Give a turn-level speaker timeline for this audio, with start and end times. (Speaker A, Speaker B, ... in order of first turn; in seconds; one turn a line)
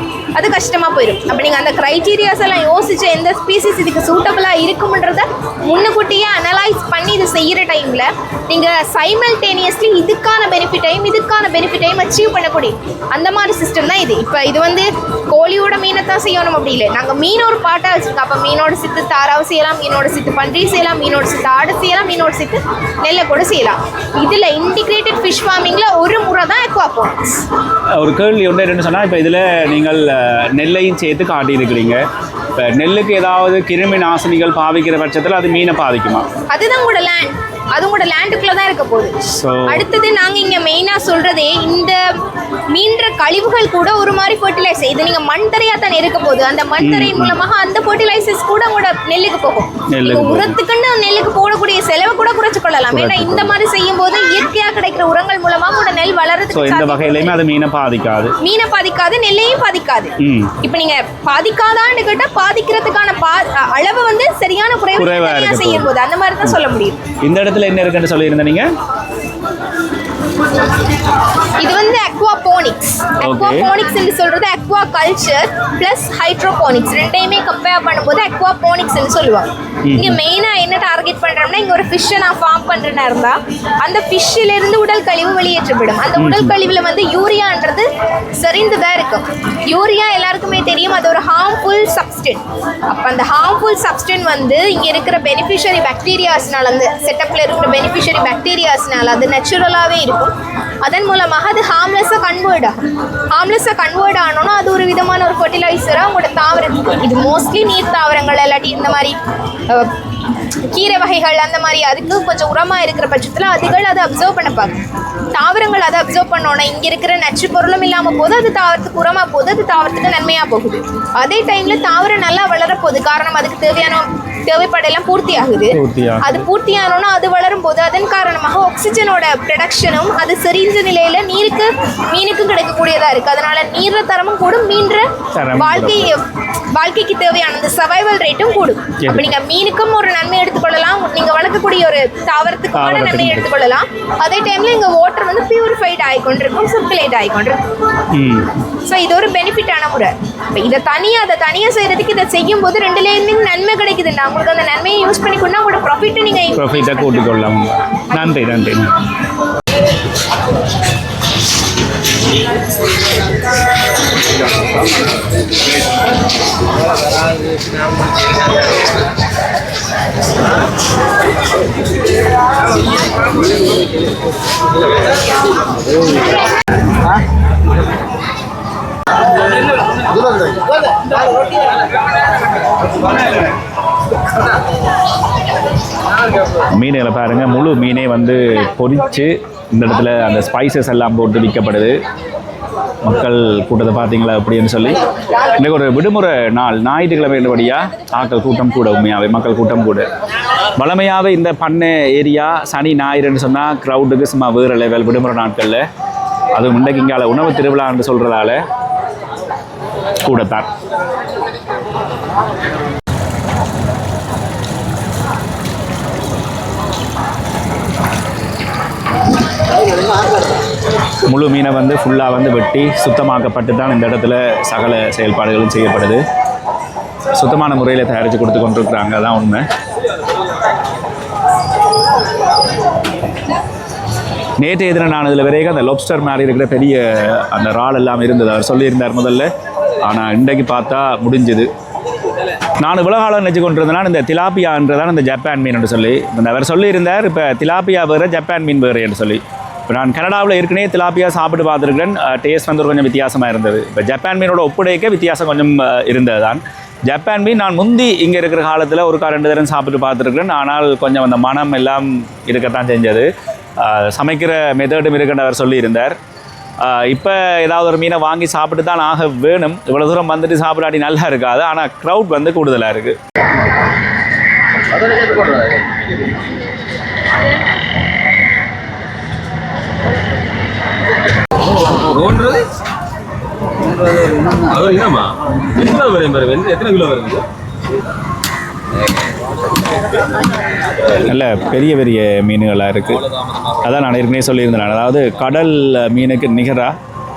Speaker A: 0.3-27.1
Speaker B: 28.0-32.0
Speaker B: 32.5-36.3
Speaker A: 36.5-39.1
Speaker B: 39.3-39.8
Speaker A: 39.7-42.0
Speaker A: 42.7-57.4
Speaker B: 46.8-47.4
Speaker B: 49.9-50.5
Speaker B: 52.9-53.5
Speaker B: 56.5-58.3
Speaker A: 58.4-67.0
Speaker B: 60.2-60.6
Speaker B: 65.0-65.9
Speaker B: 67.2-68.6
Speaker A: 71.6-87.8
Speaker B: 73.2-73.7
Speaker B: 79.8-80.2
Speaker B: 86.2-86.5
Speaker A: 88.4-102.7
Speaker A: 103.3-109.2
Speaker A: 109.7-109.9
Speaker A: 110.7-114.8
Speaker A: 115.3-136.2
Speaker B: 125.7-126.5
Speaker B: 135.3-136.1
Speaker A: 136.8-147.7
Speaker B: 139.0-139.3
Speaker B: 142.7-143.5
Speaker B: 148.1-148.5
Speaker A: 148.8-157.3
Speaker B: 156.5-158.9
Speaker B: 186.7-191.9
Speaker B: 193.0-195.0
Speaker B: 195.6-200.1
Speaker B: 200.8-205.8
Speaker B: 206.5-208.6
Speaker B: 210.2-210.7
Speaker B: 221.2-226.2
Speaker B: 227.3-229.6
Speaker B: 234.6-239.5
Speaker B: 240.0-241.7
Speaker B: 242.8-263.3
Speaker B: 263.8-266.1
Speaker B: 266.8-273.1
Speaker C: 275.1-275.5
Speaker C: 282.1-282.7
Speaker C: 284.2-287.4
Speaker B: 291.2-293.2
Speaker B: 293.8-296.9